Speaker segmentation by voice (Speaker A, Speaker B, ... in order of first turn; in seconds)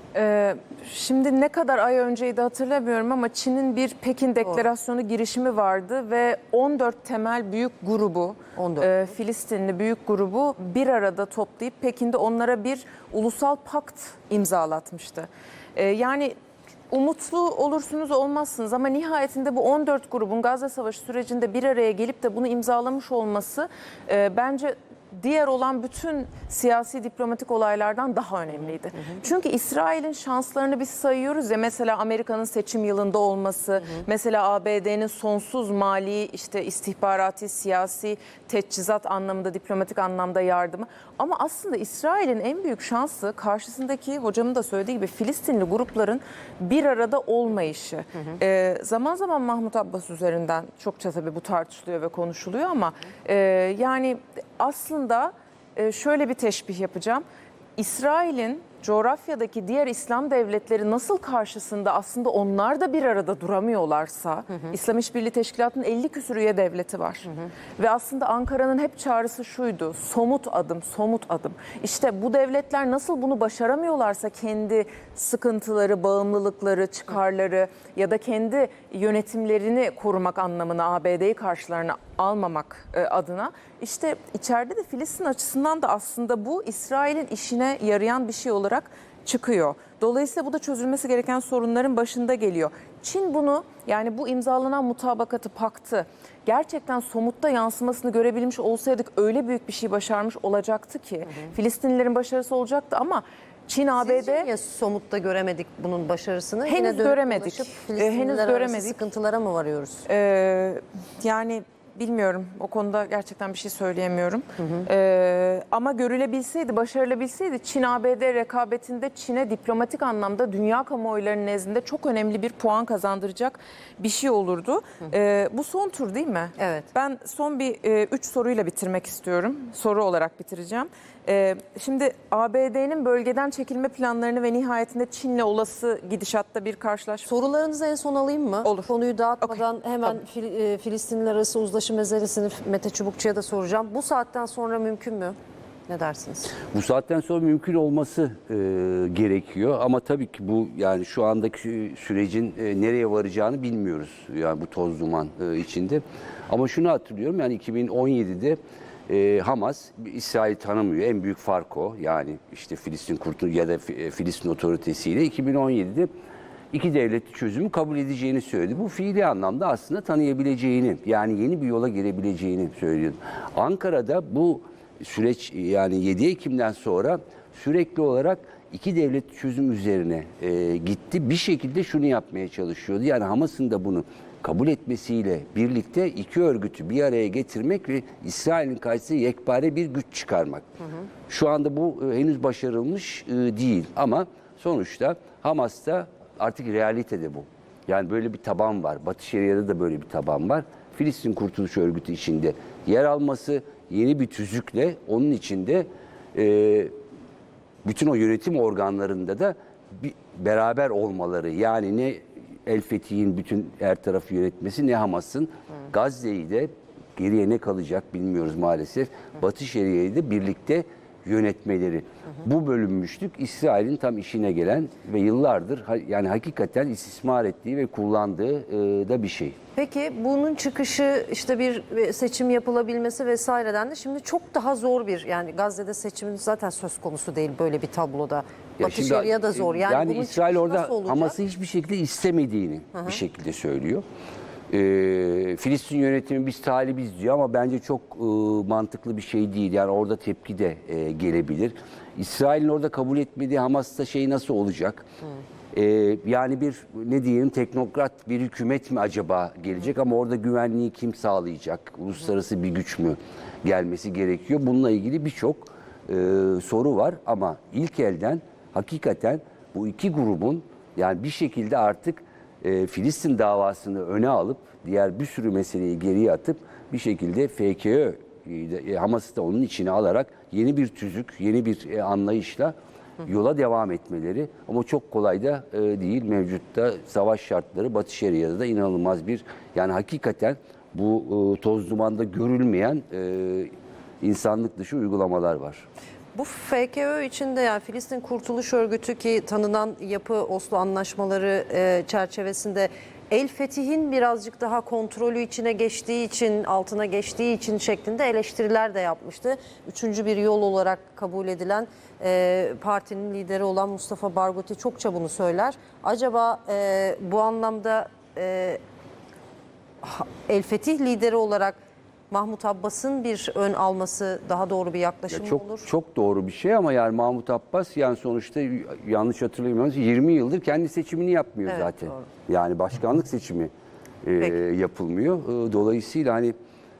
Speaker A: 0.1-16.3, 16.9-57.2, 57.8-104.5, 106.7-109.1, 110.1-137.3, 138.6-139.6
Speaker B: 8.6-8.9, 28.6-29.2, 67.2-67.5, 101.2-101.5, 104.0-110.1, 114.6-114.9, 126.6-126.8, 137.3-145.3, 145.9-146.5, 190.8-191.1, 229.8-241.4, 242.9-243.2, 296.4-318.8, 320.0-321.8, 322.3-325.9, 331.6-332.3
Speaker C: 146.7-166.1, 166.7-190.7, 191.3-206.9, 207.8-229.6, 238.8-244.0, 244.7-255.1, 255.7-295.9, 325.3-333.7, 334.2-336.5